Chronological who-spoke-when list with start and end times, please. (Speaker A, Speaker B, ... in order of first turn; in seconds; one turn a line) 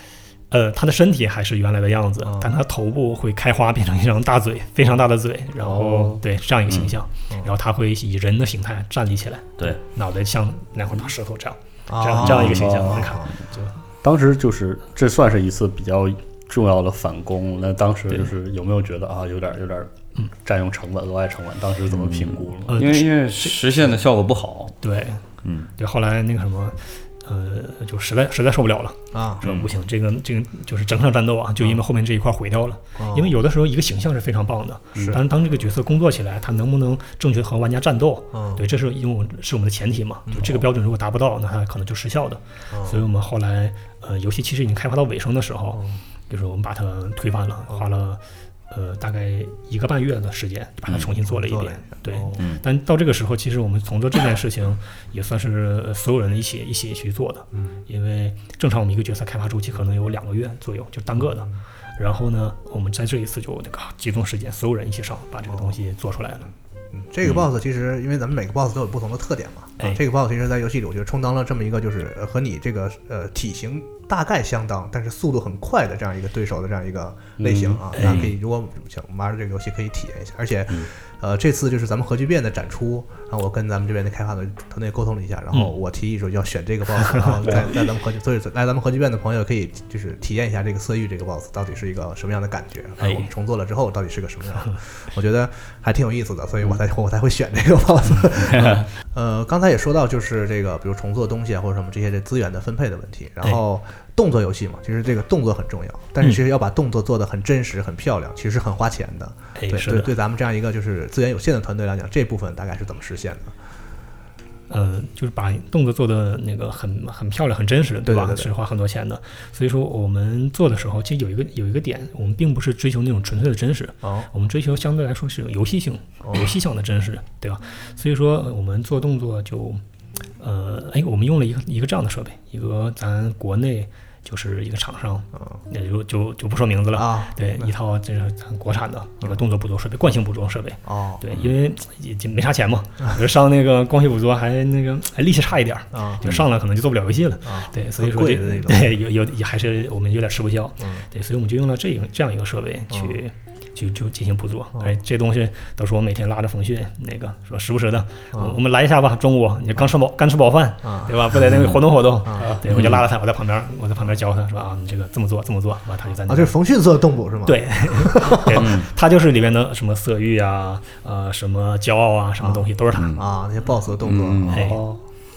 Speaker A: 0.5-13.7
Speaker B: 2.2-2.5
Speaker C: 5.6-6.2
Speaker B: 11.9-13.4
Speaker C: 12.2-13.1
Speaker C: 14.0-22.8
Speaker D: 21.9-24.8
Speaker A: 22.7-23.5
Speaker A: 24.8-25.2
Speaker D: 25.4-25.7
Speaker A: 25.8-66.5
Speaker B: 29.1-29.4
Speaker D: 29.4-29.7
Speaker B: 33.0-33.3
Speaker B: 34.9-35.2
Speaker B: 38.3-38.6
Speaker B: 40.3-40.6
Speaker B: 42.7-43.0
Speaker B: 45.7-46.0
Speaker B: 51.3-52.4
Speaker B: 57.5-57.8
Speaker B: 61.2-61.6
Speaker B: 65.5-65.8
Speaker B: 66.9-113.5
Speaker C: 77.4-78.0
Speaker A: 77.9-78.3
Speaker A: 87.0-87.6
Speaker A: 93.0-93.3
Speaker A: 109.5-110.1
Speaker A: 114.7-129.8
Speaker B: 118.0-118.5
Speaker B: 124.0-124.3
Speaker B: 126.2-126.5
Speaker A: 130.4-166.6
Speaker B: 136.9-137.7
Speaker B: 140.8-141.4
Speaker B: 145.9-146.4
Speaker B: 147.4-148.9
Speaker B: 150.8-151.1
Speaker B: 152.9-153.2
Speaker B: 158.3-158.6
Speaker B: 160.8-161.1
Speaker B: 162.2-162.5
Speaker D: 162.7-163.0
Speaker B: 166.3-168.7
Speaker A: 167.4-173.2
Speaker D: 168.6-168.8
Speaker B: 172.4-174.7
Speaker D: 172.9-173.2
Speaker D: 174.0-174.8
Speaker A: 174.5-174.8
Speaker C: 174.6-175.0